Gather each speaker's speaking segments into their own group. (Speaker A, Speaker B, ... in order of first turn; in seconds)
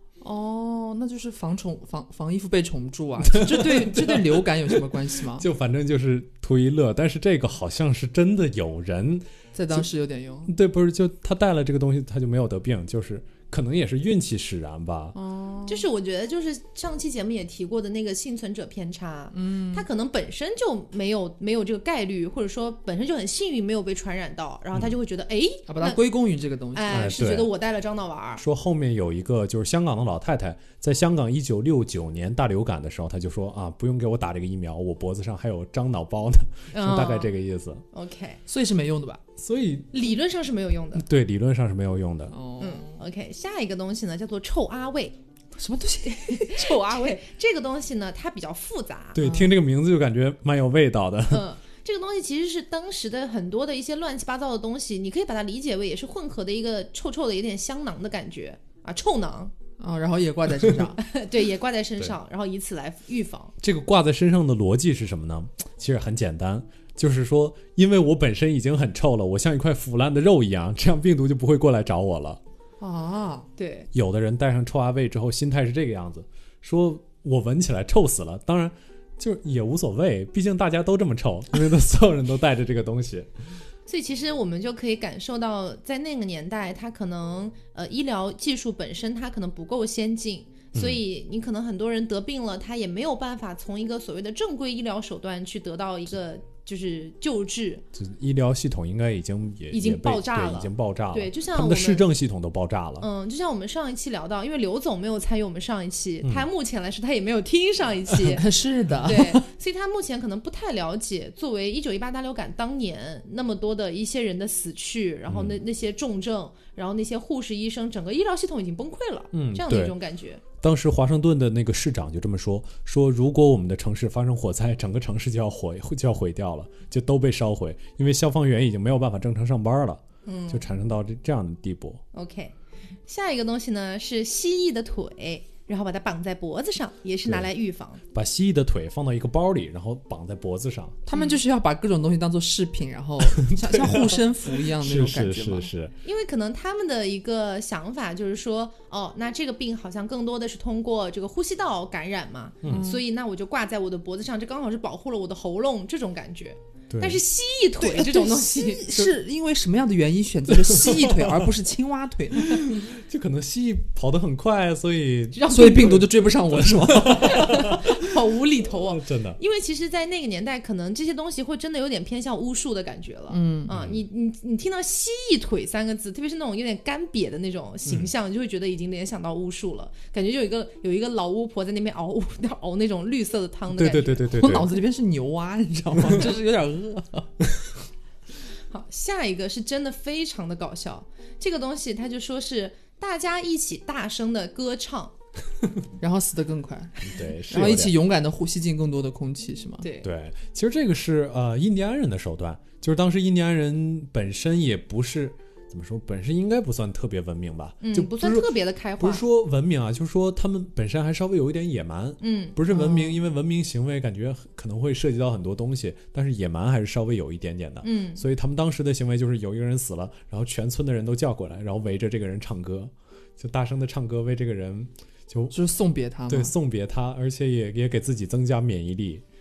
Speaker A: 0.2-5.5, 9.5-10.5, 15.1-15.8, 19.3-19.9, 25.7-26.9, 38.5-39.2, 42.3-43.0, 45.5-47.1, 49.2-49.5, 59.8-61.0, 72.8-73.5, 108.2-109.5, 141.1-145.7, 152.7-153.0, 157.8-162.7, 165.5-167.7, 173.3-173.7, 184.3-187.3, 196.0-199.8, 225.5-226.5
Speaker B: 3.3-9.9, 10.5-15.2, 26.9-27.5, 28.4-37.8, 39.4-39.9, 40.9-42.3, 49.1-51.5, 63.6-72.4, 73.9-83.3, 90.7-91.0, 97.9-103.1, 115.3-115.6, 119.3-120.0, 120.6-132.0, 138.1-141.0, 143.2-145.9, 156.9-157.2, 160.5-161.5, 162.3-167.9, 168.6-169.4, 173.7-174.0, 177.8-178.1, 183.7-184.7, 197.0-197.9, 200.0-225.5, 226.3-229.2
Speaker C: 15.7-26.0, 26.7-28.4, 36.7-37.3, 37.9-38.4, 39.9-41.0, 42.6-45.1, 46.0-49.2, 51.3-59.5, 61.0-63.5, 73.6-73.9, 83.9-97.8, 99.7-102.0, 103.0-108.5, 109.0-120.4, 130.2-130.7, 132.1-132.5, 133.1-138.0, 141.1-141.4, 146.0-159.1, 165.3-166.0, 167.2-184.6, 188.7-195.1, 199.8-200.1, 207.8-209.2, 212.2-213.2, 217.8-218.2